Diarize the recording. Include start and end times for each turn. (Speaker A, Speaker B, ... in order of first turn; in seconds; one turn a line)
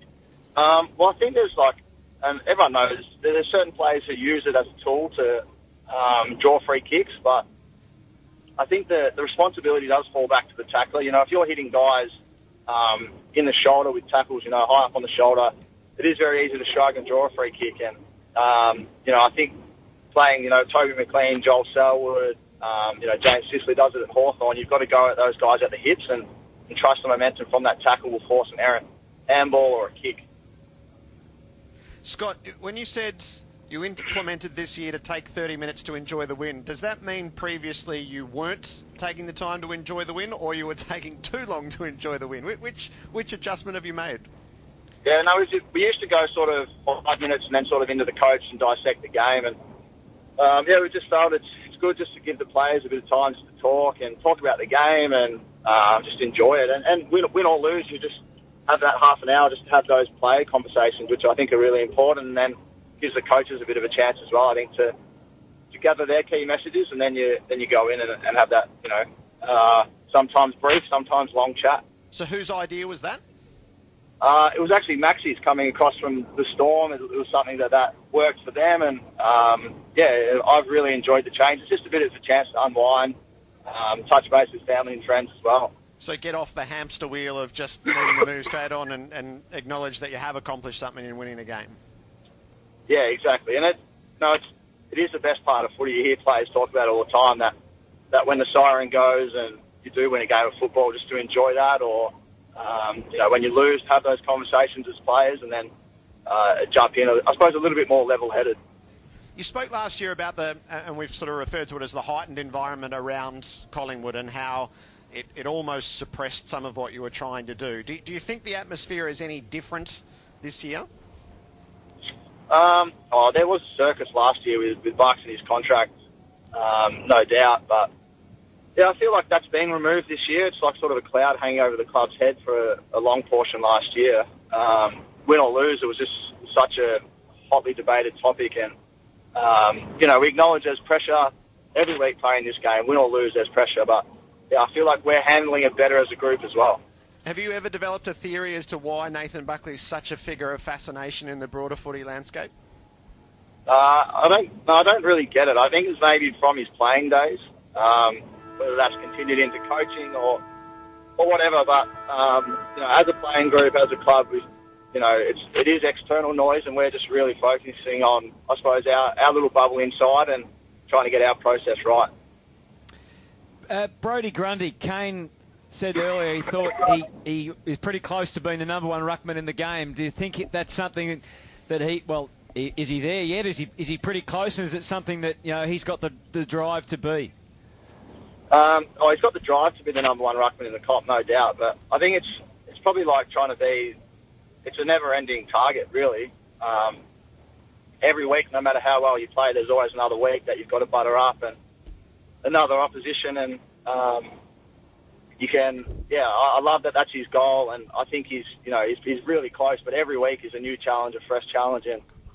Speaker A: 0.6-7.5
Speaker A: 8.6-12.2
Speaker A: 12.7-19.6
Speaker A: 20.1-30.2
Speaker B: 32.0-44.3
Speaker A: 45.0-49.6
Speaker A: 50.4-65.0
Speaker A: 65.7-71.8
Speaker B: 72.1-73.2
Speaker A: 74.2-83.2
Speaker A: 83.7-85.7
Speaker B: 86.0-91.8
Speaker A: 92.9-97.5
Speaker A: 98.1-105.7
Speaker A: 106.3-108.6
Speaker B: 109.4-120.9
Speaker A: 122.5-125.9
Speaker A: 126.5-127.9
Speaker A: 128.8-138.7
Speaker A: 139.3-146.8
Speaker B: 147.2-152.5
Speaker A: 153.7-160.4
Speaker A: 161.2-172.1
Speaker C: 173.7-187.3
Speaker A: 188.5-194.0
Speaker A: 194.7-197.0
Speaker A: 198.0-201.6
Speaker A: 202.4-204.3
Speaker A: 205.4-212.0